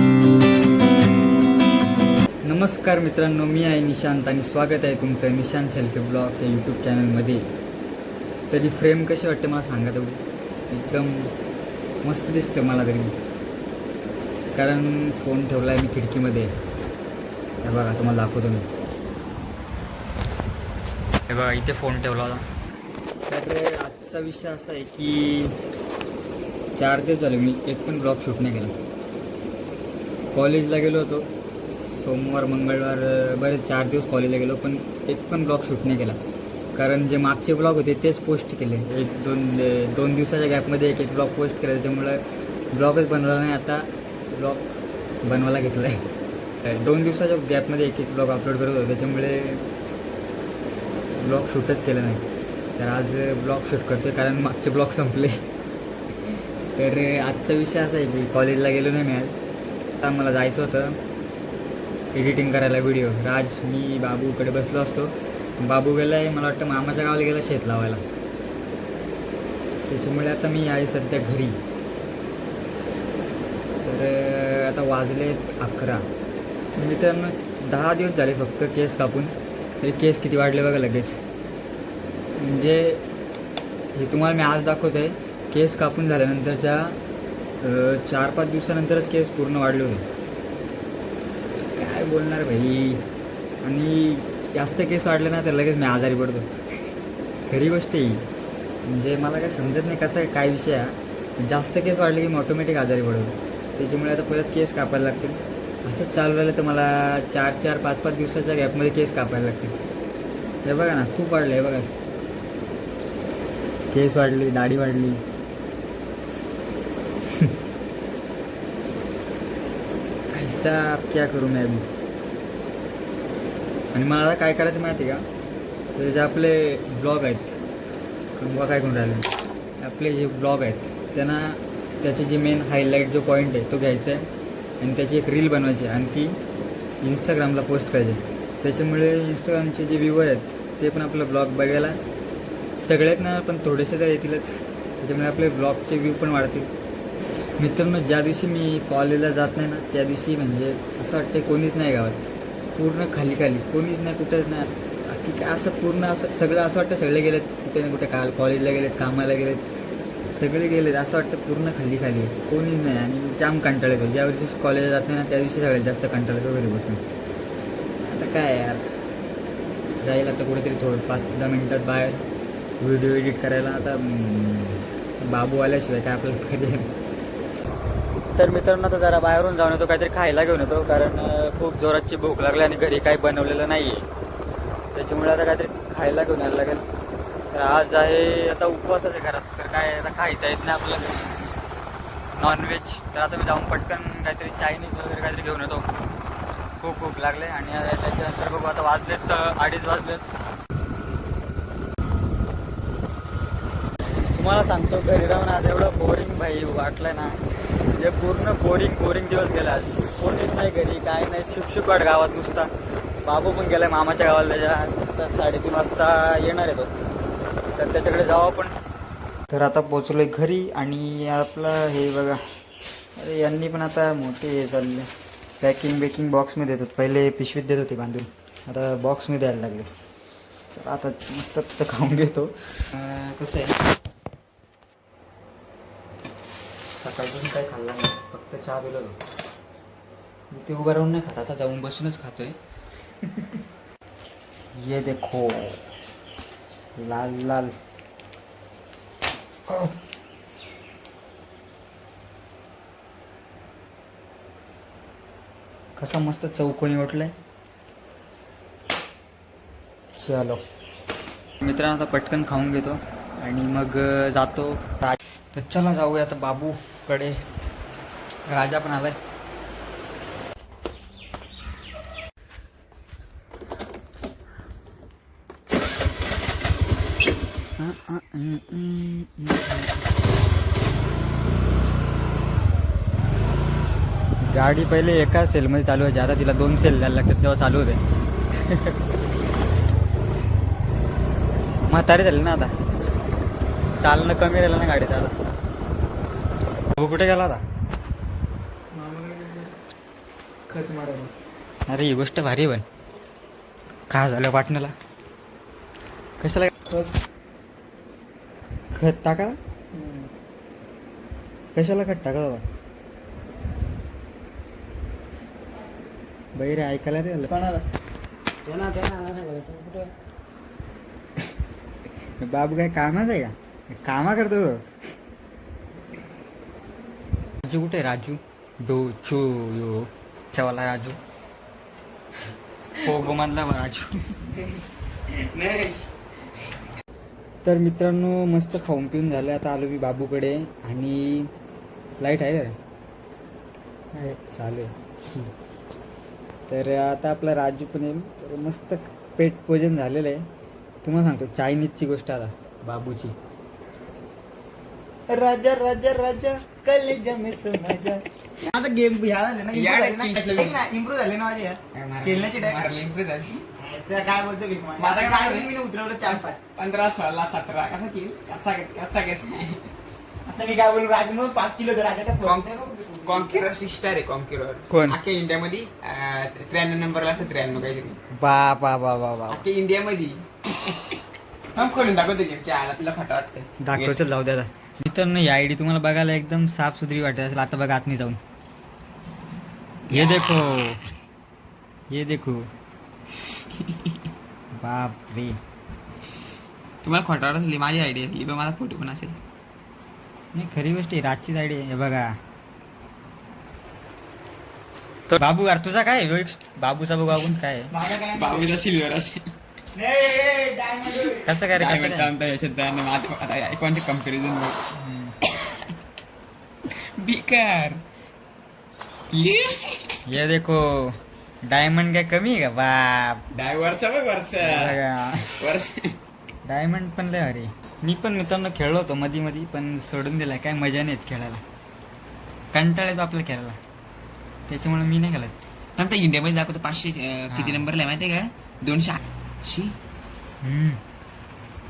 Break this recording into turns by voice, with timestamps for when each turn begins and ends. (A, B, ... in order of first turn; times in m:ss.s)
0:02.5-0:07.5 A
0:08.5-0:11.3 A
0:12.0-0:13.2 A
0:14.6-0:16.5 A
0:17.6-0:18.7 A
0:21.3-0:22.4 A
0:23.3-0:25.6 A
0:26.8-0:28.7 A
0:30.3-0:36.2 A
0:36.8-0:44.7 A
0:45.2-0:46.0 A
0:46.6-0:49.6 A
0:51.2-0:52.2 A
0:52.8-0:55.4 A
0:56.8-0:59.4 A
1:00.0-1:01.0 A
1:02.1-1:08.0 A
1:09.9-1:11.6 A
1:13.8-1:16.1 A
1:16.8-1:21.2 A
1:22.4-1:23.0 A
1:24.0-1:27.0 A
1:27.6-1:30.0 A
1:31.7-1:33.0 A
1:33.6-1:36.5 A
1:37.5-1:38.2 A
1:38.9-1:49.8 A
1:50.6-1:51.9 A
1:53.9-1:55.2 A
2:00.3-2:01.9 A
2:03.9-2:05.2 A
2:06.0-2:07.6 A
2:08.4-2:09.3 A
2:09.8-2:14.3 A
2:14.8-2:16.4 A
2:17.0-2:22.0 A
2:22.8-2:26.7 A
2:27.6-2:39.7 A
2:40.3-2:47.0 A
2:48.0-2:48.8 A
2:50.0-2:52.2 A
2:52.8-2:57.0 A
2:58.4-3:04.1 A
3:04.9-3:06.8 A
3:07.5-3:11.3 A
3:12.4-3:15.9 A
3:16.8-3:20.2 A
3:24.4-3:27.4 A
3:28.0-3:32.7 A
3:33.2-3:36.9 A
3:37.8-3:38.8 A
3:39.5-3:42.4 A
3:43.2-3:49.9 A
3:50.7-3:53.8 A
3:57.0-3:59.2 A
4:00.5-4:02.6 A
4:03.2-4:03.6 A
4:04.8-4:05.9 A
4:07.0-4:07.7 A
4:09.7-4:10.0 A
4:16.0-4:17.3 A
4:20.2-4:20.6 A
4:21.6-4:27.4 A
4:28.5-4:29.2 A
4:37.8-4:40.0 A
4:44.4-4:48.0 A
4:48.6-4:49.0 A
4:51.9-4:52.7 A
4:54.0-4:55.3 A
4:57.0-4:57.6 A
4:58.9-4:59.8 B
5:00.7-5:01.3 B
5:01.9-5:02.8 A
5:04.1-5:04.9 A
5:06.4-5:06.7 A
5:06.9-5:07.2 B
5:08.9-5:09.6 A
5:09.9-5:10.3 B
5:11.8-5:12.6 A
5:16.6-5:17.5 A
5:17.5-5:17.8 B
5:18.6-5:20.1 B
5:22.4-5:24.8 A
5:27.6-5:31.2 A
5:33.0-5:34.4 A
5:37.6-5:41.5 A
5:42.2-5:42.7 A
5:44.2-5:45.4 A
5:46.7-5:50.4 A
5:51.0-5:53.4 A
5:55.3-6:02.8 B
5:59.7-6:00.8 C
6:01.9-6:03.6 C
6:03.8-6:06.6 B
6:05.0-6:09.9 C
6:10.5-6:13.7 B
6:12.4-6:12.7 C
6:13.2-6:18.2 C
6:14.9-6:15.2 A
6:18.3-6:19.6 A
6:19.5-6:21.2 C
6:21.7-6:24.2 C
6:23.8-6:28.4 A
6:30.1-6:31.0 A
6:30.1-6:31.0 C
6:32.1-6:32.7 A
6:33.7-6:34.2 C
6:34.8-6:35.6 A
6:37.0-6:39.4 C
6:40.5-6:42.4 A
6:45.3-6:47.9 A
6:47.9-6:48.9 B
6:48.2-6:49.5 C
6:50.0-6:51.5 B
6:51.2-6:54.9 C
6:51.4-6:52.3 A
6:55.0-6:55.4 A
6:55.5-6:55.9 C
6:56.9-6:58.0 C
6:59.3-7:00.2 C
7:00.3-7:03.4 A
7:03.5-7:05.0 C
7:04.6-7:05.6 A
7:05.6-7:06.2 C
7:06.7-7:11.6 A
7:12.7-7:13.8 A
7:14.7-7:15.6 A
7:16.0-7:20.0 C
7:17.5-7:17.9 A
7:20.6-7:21.0 A